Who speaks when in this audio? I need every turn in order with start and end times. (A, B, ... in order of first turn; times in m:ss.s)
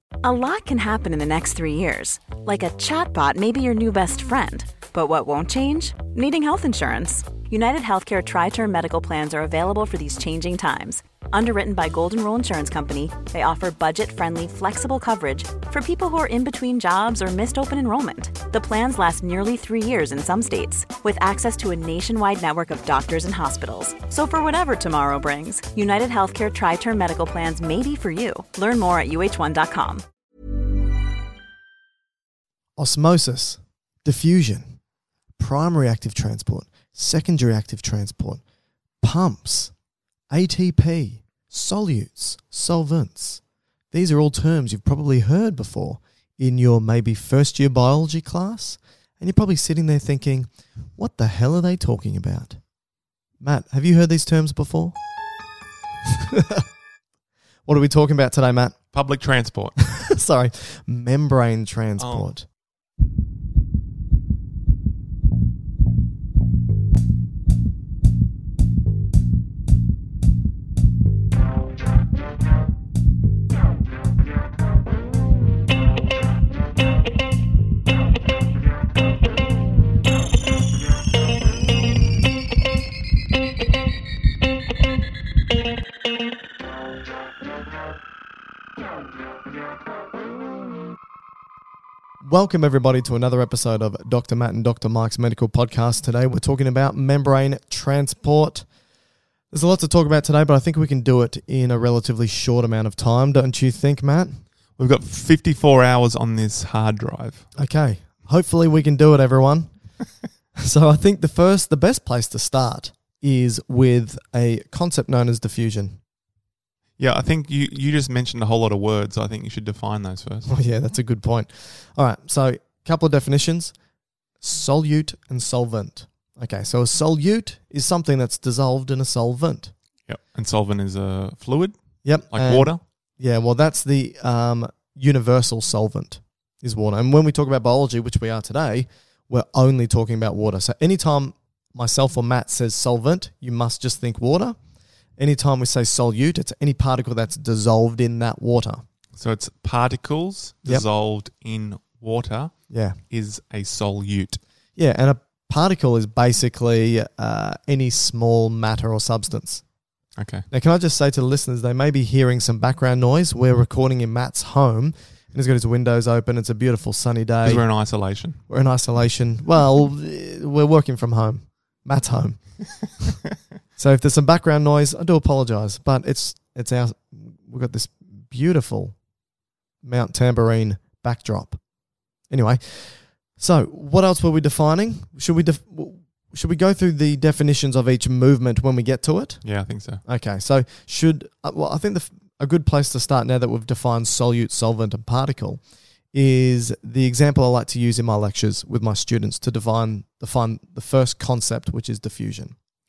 0:00.2-0:30.0 A
0:32.8-0:34.8 B
0:35.4-0:38.4 B
0:39.0-0:39.7 B
0:40.3-0:52.6 B
0:53.4-0:55.0 B
0:56.1-0:56.6 B
0:57.6-0:58.8 B
0:58.9-0:59.8 C
0:59.9-1:02.4 B
1:02.0-1:02.3 C
1:32.2-1:38.6 B
1:39.5-1:44.4 B
1:44.8-1:47.4 C
1:47.6-1:49.7 B
1:50.6-1:56.0 B
1:57.0-2:00.5 C
2:00.5-2:03.7 B
2:04.4-2:09.7 B
2:10.1-2:11.7 C
2:12.0-2:24.6 B
2:12.3-2:12.8 C
2:25.2-2:28.8 B
2:29.1-2:34.4 C
2:32.7-2:33.0 B
2:34.8-2:39.6 B
2:40.2-2:40.4 C
2:40.5-2:47.7 B
2:47.4-2:48.4 C
2:48.5-2:52.4 B
2:53.8-2:58.9 B
2:59.8-3:01.6 B
3:02.3-3:09.4 B
3:09.4-3:10.0 C
3:10.0-3:15.6 B
3:16.1-3:22.5 B